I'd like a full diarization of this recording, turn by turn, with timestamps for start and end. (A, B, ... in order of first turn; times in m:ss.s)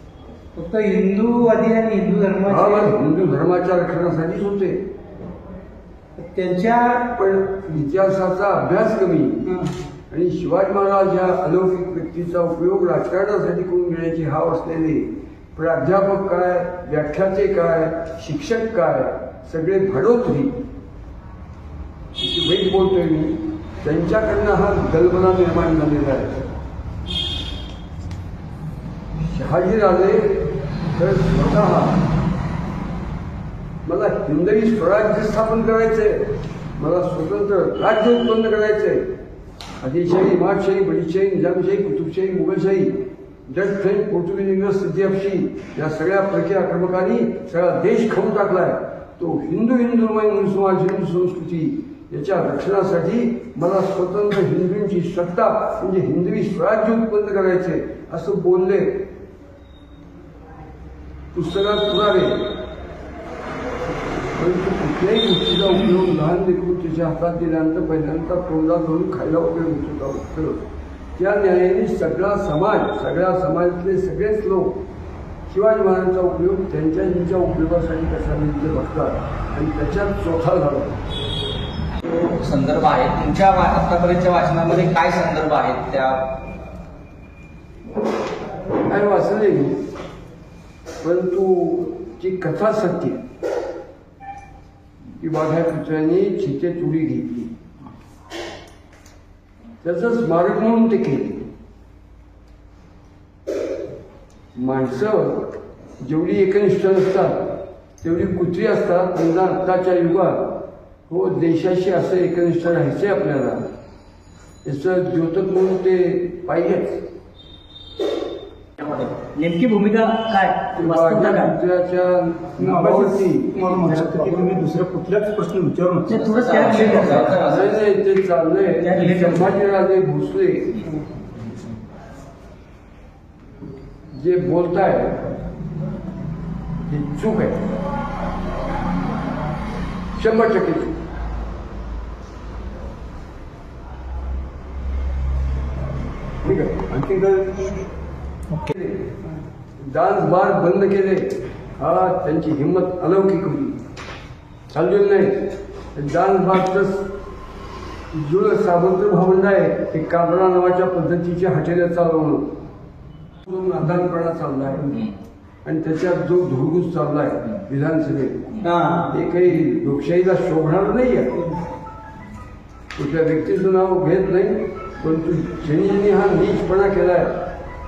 0:00.6-0:02.9 A
0:02.4-0:04.8 B
0:06.2-0:07.0 A
0:07.1-0:09.5 B
0:09.5-0:09.8 A
0:10.1-0:20.5 B
0:22.2-0:26.4 B
0:29.2-0:32.0 B
0:33.8-0:39.1 B
0:39.8-0:59.1 B
1:01.3-1:02.5 B
1:04.3-1:10.6 B
1:11.2-1:14.8 B
1:15.5-1:20.9 B
1:22.0-1:26.3 C
1:28.9-1:29.8 B
1:31.0-1:33.2 B
1:35.1-1:37.5 B
1:39.8-1:41.5 B
1:44.6-1:53.6 B
1:54.6-1:57.0 B
1:58.8-2:01.5 C
2:00.8-2:03.4 B
2:02.6-2:06.3 D
2:06.1-2:07.6 C
2:06.1-2:07.4 A
2:07.2-2:10.8 B
2:08.8-2:09.4 A
2:14.1-2:15.3 B
2:16.9-2:17.7 B
2:20.2-2:21.0 B
2:26.4-2:27.0 B
2:26.7-2:27.6 D
2:28.6-2:29.2 B
2:29.8-2:33.8 B
2:34.7-2:37.1 B
2:38.1-2:42.5 B
2:43.4-2:45.1 B
2:45.6-2:51.4 B
2:48.6-2:49.1 A
2:53.0-2:57.4 B